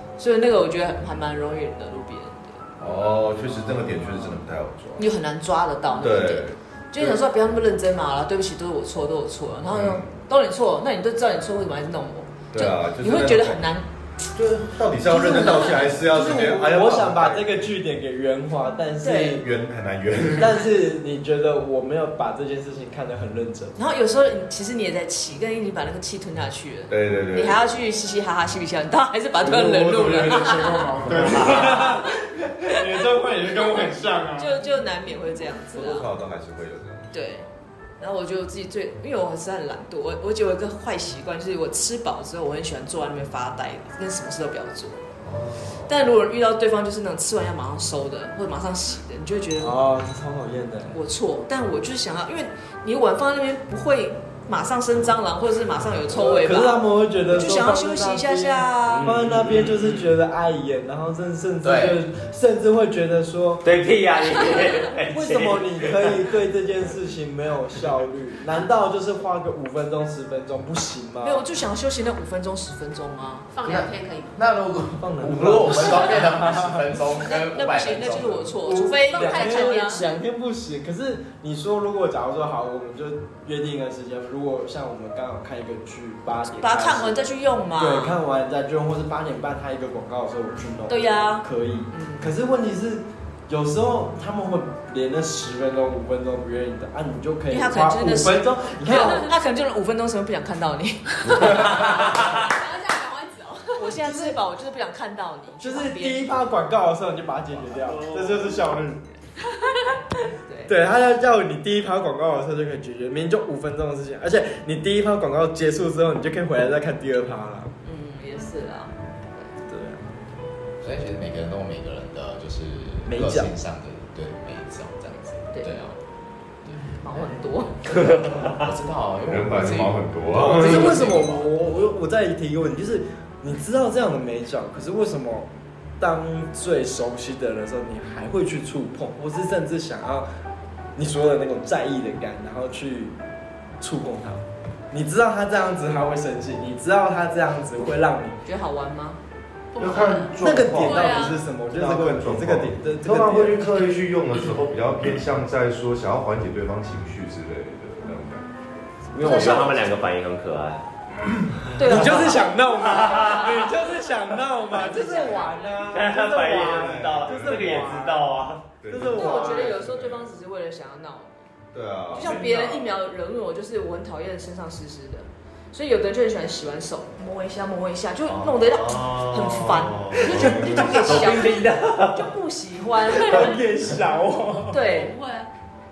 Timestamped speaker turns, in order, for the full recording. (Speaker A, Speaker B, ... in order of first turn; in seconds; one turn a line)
Speaker A: 0.2-2.8
Speaker B: 2.8-5.1
Speaker A: 5.0-13.9
Speaker B: 6.0-7.2
Speaker B: 9.7-10.1
Speaker B: 12.5-13.7
Speaker B: 14.3-17.6
Speaker C: 15.1-19.5
Speaker A: 19.0-19.4
Speaker B: 19.4-20.6
Speaker C: 20.4-23.8
Speaker A: 23.8-32.1
Speaker B: 26.9-27.6
Speaker C: 29.4-34.6
Speaker B: 31.1-31.6
Speaker A: 34.4-36.1
Speaker B: 35.7-37.4
Speaker A: 37.1-37.5
Speaker A: 38.0-45.1
Speaker B: 45.2-45.9
Speaker A: 45.9-49.8
Speaker C: 49.6-51.0
Speaker A: 50.9-59.2
Speaker C: 56.1-63.6
Speaker D: 58.9-60.1
Speaker E: 61.6-62.0
Speaker D: 63.6-66.2
Speaker C: 65.1-71.5
Speaker A: 71.2-73.5
Speaker F: 73.5-74.4
Speaker E: 73.7-78.6
Speaker C: 75.0-76.9
Speaker A: 77.2-80.1
Speaker C: 78.6-87.3
Speaker F: 79.0-80.1
Speaker A: 86.6-88.2
Speaker C: 87.8-99.3
Speaker A: 90.9-92.3
Speaker A: 97.5-102.4
Speaker F: 101.7-103.8
Speaker A: 103.8-106.3
Speaker C: 103.9-104.4
Speaker C: 105.6-109.1
Speaker D: 108.1-108.6
Speaker A: 110.2-110.8
Speaker C: 110.7-117.7
Speaker A: 117.8-119.0
Speaker C: 119.6-120.2
Speaker E: 120.8-126.0
Speaker C: 123.1-123.5
Speaker E: 126.6-131.8
Speaker A: 127.0-128.0
Speaker D: 128.3-128.6
Speaker B: 129.3-131.0
Speaker C: 130.4-135.5
Speaker C: 136.0-140.3
Speaker C: 141.0-143.2
Speaker C: 143.8-148.4
Speaker A: 148.4-149.2
Speaker F: 149.7-151.4
Speaker B: 149.8-158.5
Speaker C: 150.4-153.7
Speaker D: 159.1-160.8
Speaker A: 159.2-159.9
Speaker A: 161.8-162.6
Speaker C: 161.8-168.3
Speaker D: 162.7-164.1
Speaker A: 164.7-165.9
Speaker F: 165.0-165.5
Speaker D: 165.9-168.7
Speaker B: 166.7-168.0
Speaker B: 168.8-170.3
Speaker C: 168.9-169.8
Speaker A: 169.1-171.5
Speaker B: 171.7-172.5
Speaker C: 172.1-172.9
Speaker A: 172.1-183.6
Speaker B: 178.3-181.3
Speaker D: 180.2-182.3
Speaker C: 183.1-184.8
Speaker A: 184.7-185.2
Speaker F: 184.9-185.5